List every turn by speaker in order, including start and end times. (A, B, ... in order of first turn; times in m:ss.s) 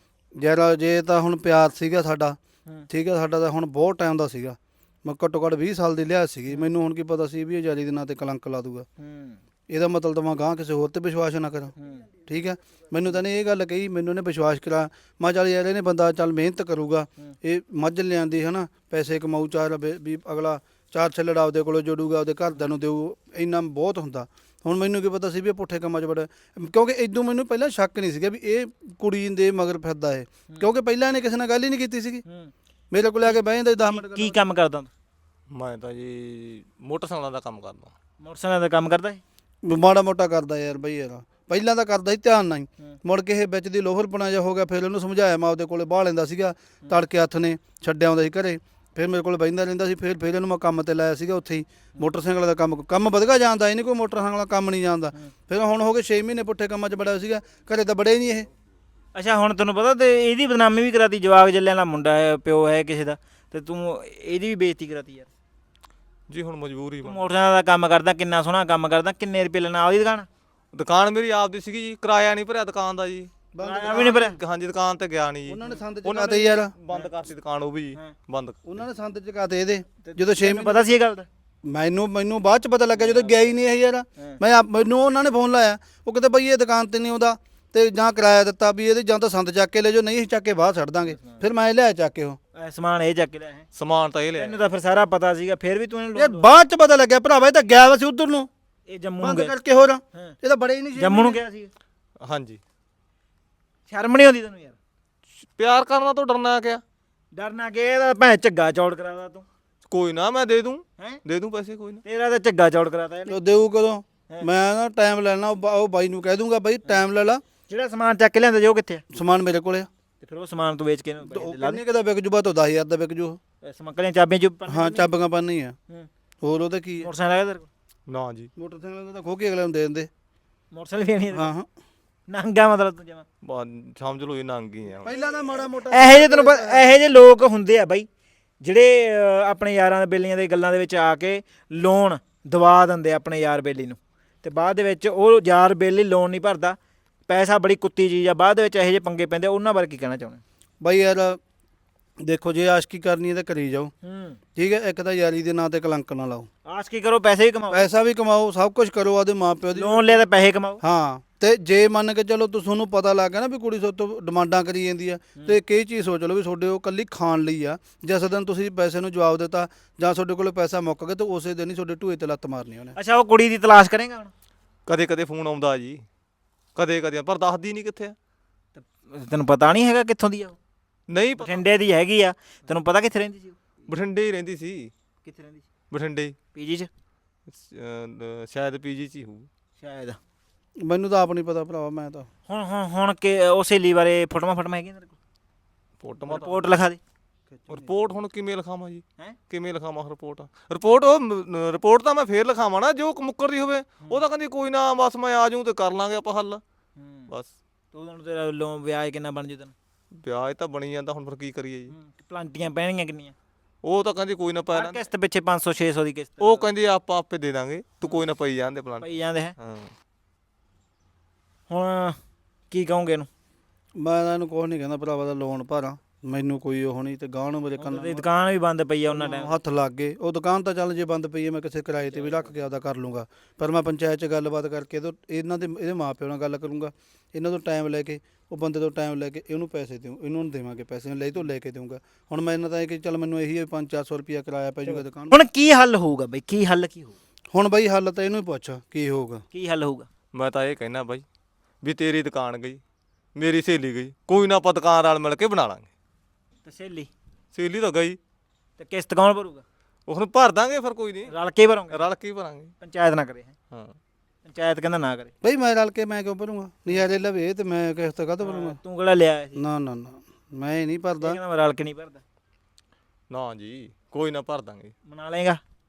0:00.4-0:02.4 A
0:02.9-0:08.8 A
0:09.0-0:09.4 B
0:09.7-0:11.7 A
0:11.8-0:12.1 B
0:12.3-0:32.2 A
0:32.2-0:32.5 B
0:32.9-0:34.4 A
0:33.2-0:34.9 B
0:35.5-0:37.9 C
0:38.2-0:39.2 B
0:39.6-0:58.5 A
0:59.1-1:05.3 B
1:06.3-1:07.2 C
1:07.0-1:10.3 B
1:10.7-1:13.3 C
1:13.5-1:14.3 A
1:13.6-1:14.4 B
1:13.9-1:18.8 C
1:15.5-1:16.7 A
1:18.6-1:20.8 A
1:20.0-1:21.3 B
1:21.6-1:32.4 A
1:22.9-1:23.6 B
1:31.1-1:31.4 B
1:32.5-1:33.6 B
1:33.7-1:34.6 C
1:34.4-1:36.4 B
1:36.1-1:38.5 A
1:38.9-1:39.5 B
1:39.2-1:41.4 A
1:41.0-1:41.7 B
1:42.2-1:42.6 C
1:43.9-1:44.8 B
1:45.4-1:46.8 C
1:47.3-1:49.4 B
1:49.9-1:52.0 C
1:52.0-1:53.4 B
1:53.3-1:57.4 A
1:57.7-1:59.0 B
1:59.1-1:59.9 A
2:00.2-2:01.8 B
2:01.2-2:03.4 A
2:03.6-2:05.0 B
2:04.7-2:05.7 A
2:06.4-2:07.1 A
2:07.0-2:07.7 B
2:08.1-2:08.5 C
2:08.6-2:10.1 A
2:10.7-2:11.5 B
2:11.3-2:11.7 A
2:12.3-2:13.2 B
2:13.4-2:15.1 C
2:15.0-2:16.9 A
2:15.1-2:15.4 B
2:15.9-2:18.1 B
2:18.6-2:30.4 B
2:30.8-2:31.4 A
2:32.2-2:33.9 A
2:34.0-2:34.4 B
2:34.6-2:36.5 A
2:36.6-2:37.9 B
2:37.7-2:40.2 A
2:39.7-2:40.8 B
2:40.8-2:52.9 A
2:52.9-2:54.3 B
2:54.8-2:56.0 C
2:56.8-2:58.1 C
2:58.8-3:00.6 B
3:01.1-3:01.6 C
3:01.4-3:03.6 B
3:03.9-3:04.9 C
3:05.2-3:05.6 B
3:05.9-3:06.3 C
3:06.5-3:06.9 B
3:07.5-3:09.5 C
3:09.8-3:10.2 B
3:10.8-3:12.3 A
3:12.5-3:15.2 B
3:16.0-3:16.6 C
3:16.3-3:17.0 B
3:17.6-3:17.9 A
3:17.7-3:26.6 C
3:27.0-3:27.3 B
3:27.9-3:29.7 B
3:30.2-3:31.9 C
3:31.9-3:33.3 B
3:33.8-3:35.0 C
3:34.7-3:36.7 B
3:36.4-3:39.9 C
3:39.0-3:39.5 B
3:41.7-3:42.2 B
3:42.7-3:43.3 B
3:44.0-3:48.2 A
3:47.8-3:49.5 B
3:49.1-4:05.4 A
4:04.8-4:07.2 B
4:07.5-4:09.4 A
4:09.5-4:10.1 B
4:10.3-4:11.2 C
4:11.8-4:12.8 C
4:13.4-4:15.9 C
4:16.6-4:17.1 B
4:17.5-4:18.2 C
4:18.8-4:19.6 B
4:20.1-4:21.3 C
4:21.3-4:22.0 B
4:21.9-4:22.7 C
4:22.8-4:23.5 B
4:24.4-4:25.3 B
4:25.4-4:28.8 A
4:28.4-4:29.6 B
4:29.6-4:31.4 A
4:31.2-4:32.2 B
4:33.3-4:34.9 C
4:35.1-4:35.6 B